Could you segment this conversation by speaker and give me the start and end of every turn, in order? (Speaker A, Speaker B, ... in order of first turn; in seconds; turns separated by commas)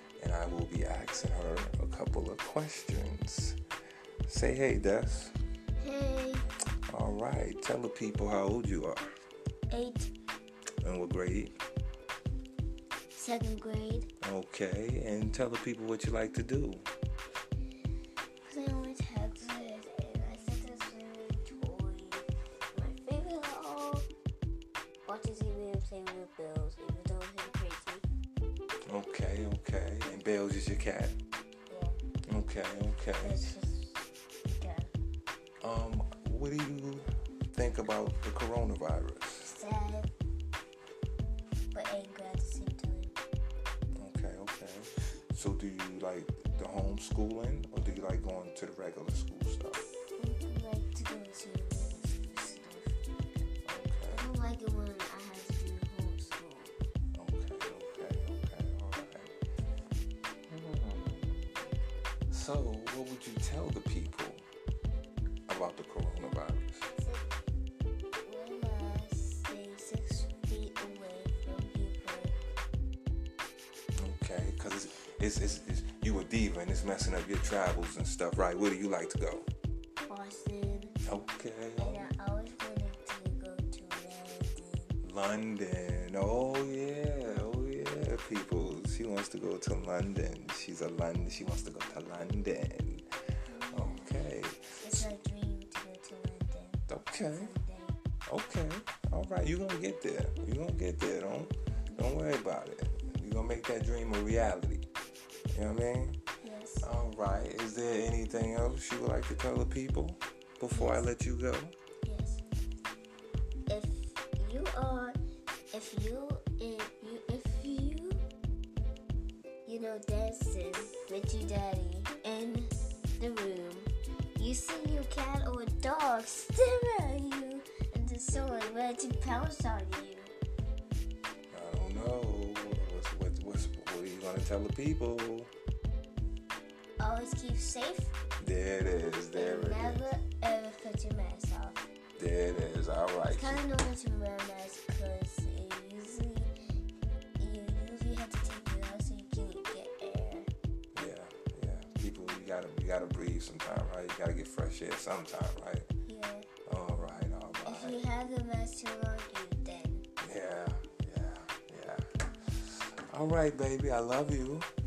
Speaker A: 0.2-3.6, Speaker A: 4.3-5.3, Speaker B: 5.8-6.5, Speaker A: 6.9-9.1, Speaker B: 9.7-10.1, Speaker A: 10.8-11.6, Speaker B: 13.2-14.1, Speaker A: 14.2-16.9, Speaker B: 18.4-24.1, Speaker B: 25.1-28.1, Speaker A: 28.9-31.1, Speaker B: 31.7-32.0, Speaker A: 32.3-33.5, Speaker B: 33.2-34.9, Speaker A: 35.6-39.6, Speaker B: 39.4-40.1, Speaker B: 41.7-43.1, Speaker A: 44.0-49.8, Speaker B: 50.2-53.0, Speaker A: 53.6-54.3, Speaker B: 54.1-56.8, Speaker A: 57.1-59.4, Speaker A: 60.5-61.6, Speaker A: 62.3-64.5, Speaker A: 65.5-66.9, Speaker B: 66.9-67.3, Speaker B: 68.2-72.4, Speaker A: 74.0-79.5, Speaker B: 80.1-81.0, Speaker A: 81.1-82.1, Speaker B: 81.8-85.0, Speaker A: 85.0-93.1, Speaker B: 93.5-94.2, Speaker A: 93.7-95.1, Speaker B: 94.8-98.0, Speaker A: 96.9-97.5, Speaker A: 98.3-104.9, Speaker A: 105.5-106.2, Speaker B: 106.4-106.9, Speaker A: 106.8-111.8, Speaker B: 110.7-111.1, Speaker B: 112.0-112.4, Speaker B: 113.7-115.2, Speaker B: 115.7-118.2, Speaker B: 119.7-130.3, Speaker A: 131.5-135.5, Speaker B: 137.0-138.2, Speaker A: 138.4-140.1, Speaker B: 139.3-141.9, Speaker A: 142.2-143.6, Speaker B: 143.3-146.5, Speaker B: 147.4-150.5, Speaker A: 150.9-155.9, Speaker B: 156.1-156.5, Speaker A: 156.7-158.0, Speaker B: 157.6-160.1, Speaker A: 160.2-164.7